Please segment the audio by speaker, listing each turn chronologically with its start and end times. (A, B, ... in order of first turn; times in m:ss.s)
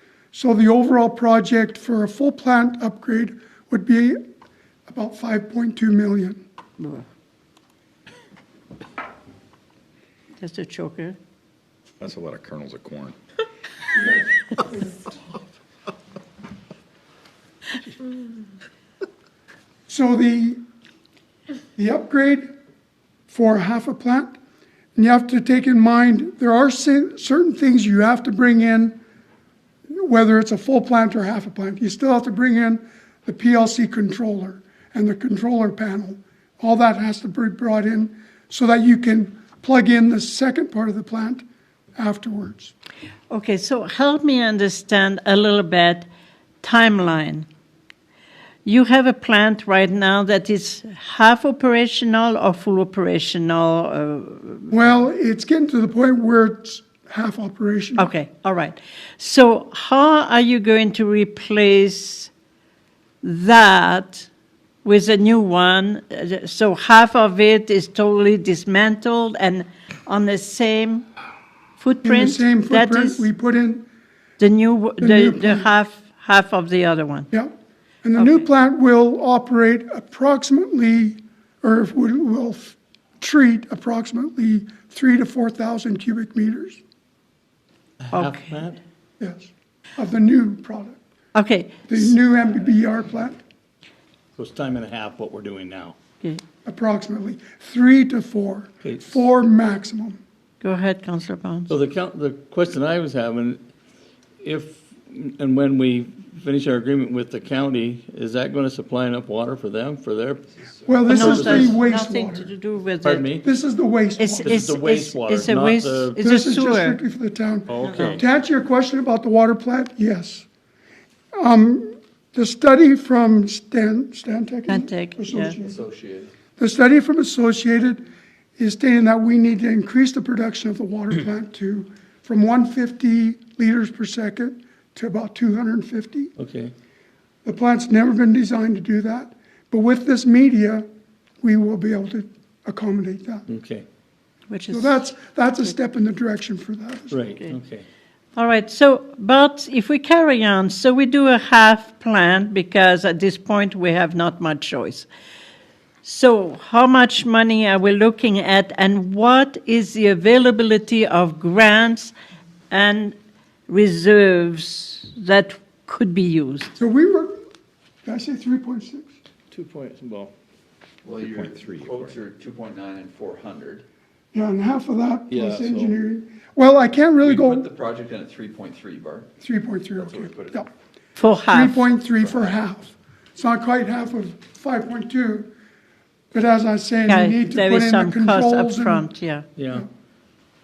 0:00.3-0:04.2 A
0:04.9-0:06.4 A
0:06.8-0:07.0 B
0:10.4-0:11.2 B
0:12.0-0:13.2 C
0:13.9-0:15.1 A
0:19.9-0:20.6 A
0:21.8-0:22.5 A
0:23.3-0:24.3 A
0:25.0-0:29.0 A
0:29.9-0:41.4 A
0:42.0-0:42.7 A
0:43.3-0:46.1 B
0:46.6-0:47.5 B
0:48.6-0:54.7 B
0:54.7-0:58.1 A
0:58.0-1:02.3 B
1:03.2-1:04.3 B
1:04.8-1:11.0 B
1:11.8-1:13.3 B
1:12.0-1:13.8 A
1:14.4-1:17.3 B
1:15.0-1:15.7 A
1:18.0-1:26.8 A
1:18.2-1:18.5 B
1:28.0-1:28.8 D
1:28.1-1:28.5 B
1:29.2-1:31.0 A
1:31.4-1:32.2 B
1:31.9-1:33.4 A
1:34.4-1:36.0 D
1:36.6-1:40.2 A
1:38.8-1:39.1 D
1:40.6-1:41.7 B
1:41.7-1:43.6 D
1:44.4-1:50.4 D
1:50.6-1:51.0 E
1:50.9-1:52.5 A
1:51.1-1:51.8 D
1:51.1-1:53.3 B
1:53.0-1:53.4 D
1:53.4-1:54.7 A
1:54.2-1:57.0 B
1:54.4-1:56.2 D
1:56.2-2:00.5 A
1:57.7-1:58.2 D
1:57.8-1:58.2 B
2:01.4-2:05.8 A
2:04.7-2:05.6 B
2:05.6-2:06.3 E
2:06.6-2:08.0 A
2:08.6-2:16.3 A
2:16.4-2:16.7 D
2:17.4-2:20.8 A
2:21.4-2:23.5 A
2:23.5-2:23.8 D
2:24.5-2:25.0 B
2:24.7-2:27.2 A
2:27.1-2:27.9 D
2:28.4-2:35.1 B
2:36.0-2:42.1 B
2:42.7-2:43.2 B
2:43.7-2:46.8 B
2:46.8-2:47.4 A
2:48.0-2:49.1 A
2:49.5-2:50.3 D
2:51.0-2:53.8 E
2:51.2-2:52.2 C
2:54.3-2:57.7 A
2:55.3-2:56.0 D
2:57.2-2:59.3 E
2:59.4-3:00.7 A
2:59.9-3:00.6 E
3:01.2-3:01.9 B
3:01.5-3:05.5 A
3:02.2-3:02.5 E
3:06.3-3:09.1 A
3:07.1-3:09.5 B
3:09.6-3:09.9 D